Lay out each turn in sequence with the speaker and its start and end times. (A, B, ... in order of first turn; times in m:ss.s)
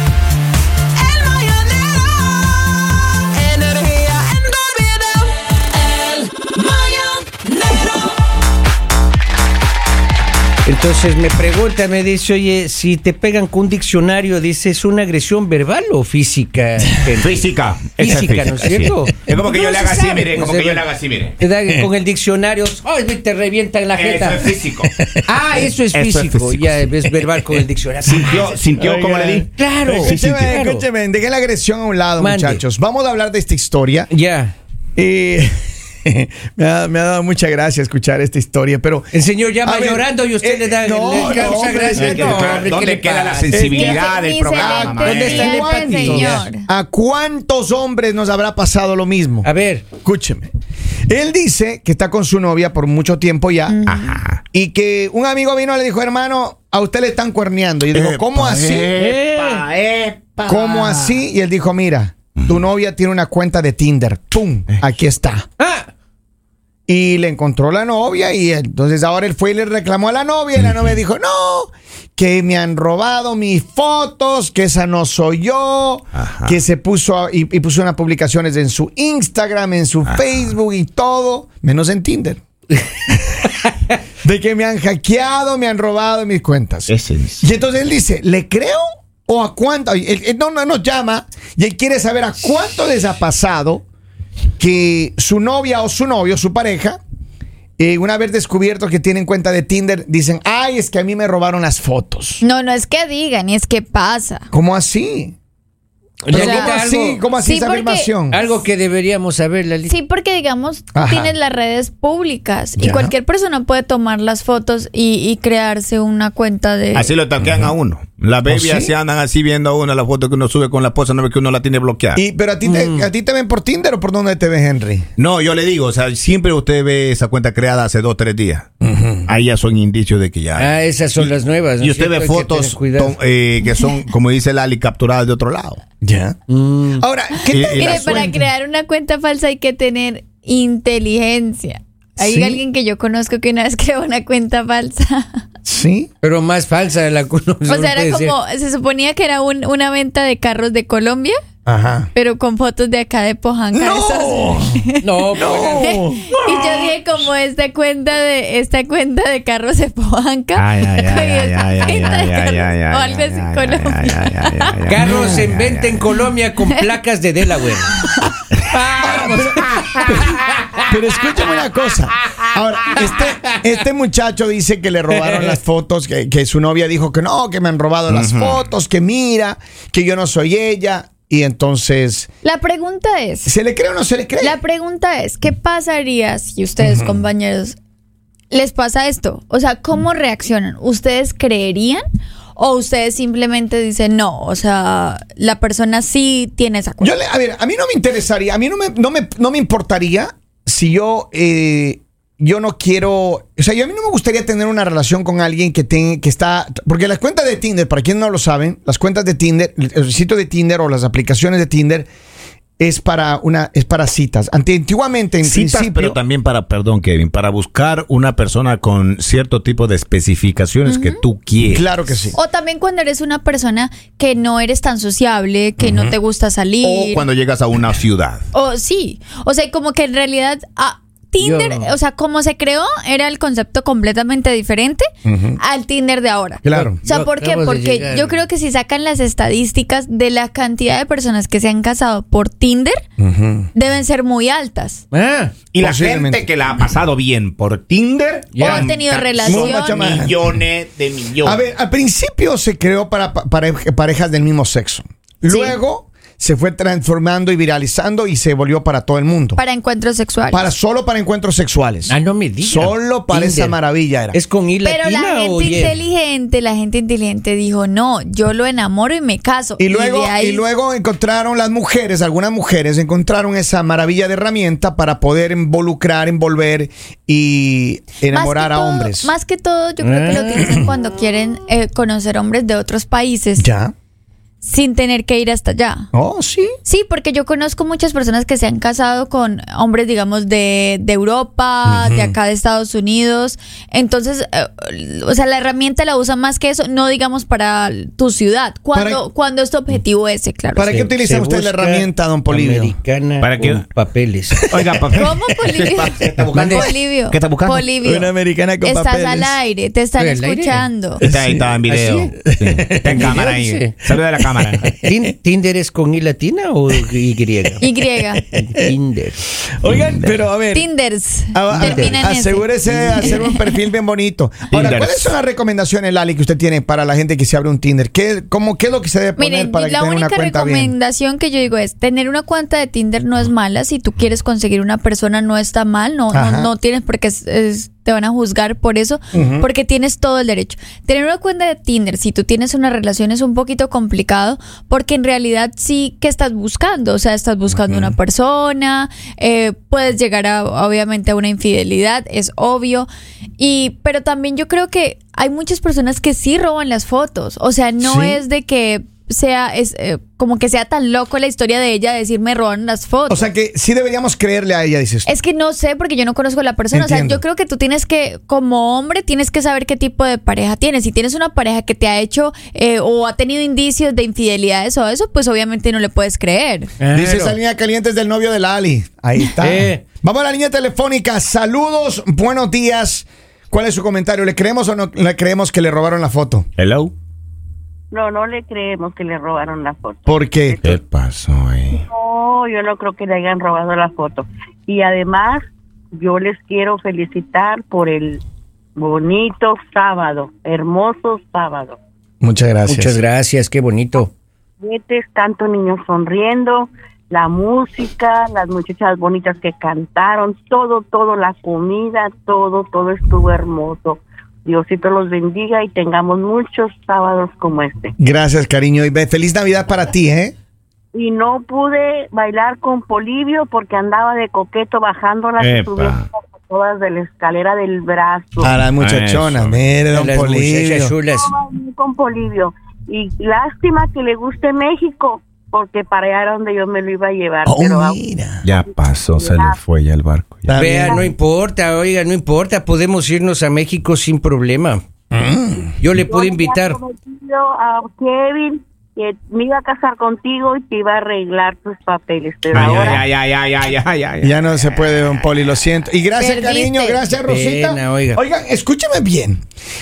0:01.0-0:02.5 A
0:03.4-0:05.4 A
0:05.9-0:07.5 A
0:10.6-0:17.3 A
0:17.1-0:21.4 B
0:18.0-0:20.9 A
0:21.4-0:24.6 A
0:23.9-0:24.9 B
0:25.2-0:30.8 A
0:25.9-0:26.9 B
0:28.0-0:30.6 B
0:28.9-0:34.1 C
0:32.2-0:32.6 A
0:34.1-0:34.6 A
0:35.0-0:42.7 C
0:39.1-0:43.7 A
0:41.8-0:45.6 B
0:43.5-0:49.5 C
0:43.7-0:46.6 D
0:45.1-0:46.5 A
0:49.4-0:49.8 A
0:50.0-0:50.5 C
0:51.1-0:53.8 C
0:53.7-0:54.2 D
0:53.9-0:54.4 B
0:54.5-0:58.9 C
0:57.9-1:01.2 B
0:59.0-0:59.7 A
1:00.4-1:05.4 C
1:05.6-1:05.9 A
1:06.9-1:22.4 C
1:10.6-1:10.9 B
1:16.2-1:16.6 B
1:20.1-1:20.5 B
1:24.2-1:33.8 C
1:26.9-1:27.5 B
1:34.6-1:37.0 C
1:37.8-1:42.4 C
1:42.4-1:44.5 D
1:44.5-1:45.4 C
1:46.2-1:47.2 A
1:46.3-1:48.4 C
1:46.3-1:46.8 D
1:47.4-1:48.1 D
1:48.3-1:50.0 A
1:49.9-1:57.1 D
1:50.9-1:51.3 C
1:52.8-1:53.1 C
1:56.9-2:02.2 B
1:58.5-1:58.9 C
2:02.2-2:05.1 C
2:02.7-2:03.1 A
2:05.2-2:08.7 B
2:08.8-2:09.3 C
2:09.3-2:15.8 B
2:10.6-2:13.2 A
2:16.0-2:16.4 C
2:16.5-2:17.0 A
2:17.0-2:18.4 C
2:17.5-2:18.3 B
2:17.7-2:25.4 D
2:22.2-2:22.6 C
2:25.6-2:26.1 C
2:26.2-2:28.3 A
2:27.7-2:31.4 D
2:31.7-2:32.1 C
2:32.1-2:35.0 D
2:33.7-2:34.8 C
2:35.0-2:36.7 A
2:35.4-2:36.6 C
2:35.8-2:44.8 D
2:40.6-2:46.0 B
2:44.8-2:48.0 A
2:45.0-2:45.5 C
2:48.7-2:50.9 A
2:49.0-3:02.3 C
2:52.9-2:53.4 A
2:55.2-2:55.5 A
2:58.1-2:58.6 B
3:02.4-3:03.5 D
3:03.4-3:04.6 C
3:04.4-3:07.8 D
3:06.8-3:07.2 C
3:08.5-3:12.0 D
3:12.6-3:17.2 D
3:17.0-3:32.1 C
3:32.8-3:36.2 C
3:35.4-3:42.1 B
3:40.9-3:41.2 D
3:41.7-3:42.4 C
3:42.3-3:47.2 D
3:45.8-3:46.1 C
3:46.8-3:48.4 B
3:48.5-4:03.0 D
3:51.4-3:51.9 A
3:55.2-3:55.6 C
3:56.6-3:57.0 C
3:56.7-3:58.4 A
4:03.2-4:03.7 C
4:03.7-4:05.0 D
4:05.1-4:05.5 A
4:05.7-4:11.6 B
4:05.8-4:06.4 C
4:08.5-4:08.9 A
4:08.6-4:10.1 D
4:09.4-4:10.5 C
4:11.4-4:19.6 C
4:15.4-4:15.8 D
4:19.6-4:20.7 D
4:20.5-4:24.4 C
4:22.1-4:23.8 A
4:24.3-4:26.0 A
4:24.8-4:30.6 D
4:29.8-4:39.3 C
4:38.3-4:43.7 D
4:40.0-4:40.9 A
4:43.6-4:43.9 C
4:44.6-4:46.1 D
4:46.1-4:46.7 C
4:46.8-5:00.9 D
4:51.8-4:52.3 C
4:58.9-4:59.2 C
5:00.8-5:03.0 C
5:00.9-5:04.7 A
5:03.4-5:03.8 B
5:04.7-5:07.9 B
5:04.7-5:05.0 C
5:05.1-5:11.2 D
5:06.5-5:06.9 A
5:08.0-5:09.6 C
5:10.2-5:10.8 A
5:11.2-5:11.8 C
5:11.2-5:15.0 B
5:11.9-5:12.4 A
5:12.5-5:13.3 C
5:12.9-5:14.1 A
5:15.0-5:17.8 A
5:17.8-5:18.4 D
5:18.5-5:19.4 A
5:18.5-5:18.9 C
5:19.7-5:20.9 C
5:19.9-5:20.3 B
5:20.7-5:23.6 D
5:21.5-5:30.9 C
5:21.7-5:22.2 A
5:22.8-5:23.3 A
5:24.7-5:25.4 B
5:29.4-6:03.5 D
5:36.3-5:36.7 C
5:39.3-5:39.7 C
5:58.0-5:58.4 C
6:03.3-6:05.3 C
6:05.2-6:16.9 D
6:06.9-6:07.4 C
6:17.0-6:17.6 A
6:17.1-6:26.7 C
6:19.6-6:20.0 A
6:26.8-6:27.1 B
6:28.1-6:31.0 E
6:30.3-6:30.8 C
6:30.8-6:32.0 B
6:31.9-6:35.6 E
6:36.1-6:38.4 E
6:39.0-6:42.0 E
6:42.4-6:43.2 C
6:42.8-6:44.3 A
6:44.8-6:58.1 E
6:58.2-7:00.6 C
7:01.1-7:08.8 E
7:05.6-7:06.2 B
7:08.6-7:11.1 C
7:09.0-7:09.8 B
7:10.1-7:11.5 A
7:11.2-7:18.2 E
7:17.6-7:18.6 C
7:18.6-7:20.9 B
7:18.7-7:19.8 E
7:20.6-7:21.2 C
7:20.7-7:25.0 A
7:25.3-7:25.9 C
7:26.0-7:27.0 A
7:26.1-7:33.2 E
7:32.7-7:35.8 B
7:32.7-7:33.2 C
7:34.4-7:39.6 C
7:36.4-7:37.2 D
7:37.4-7:38.4 A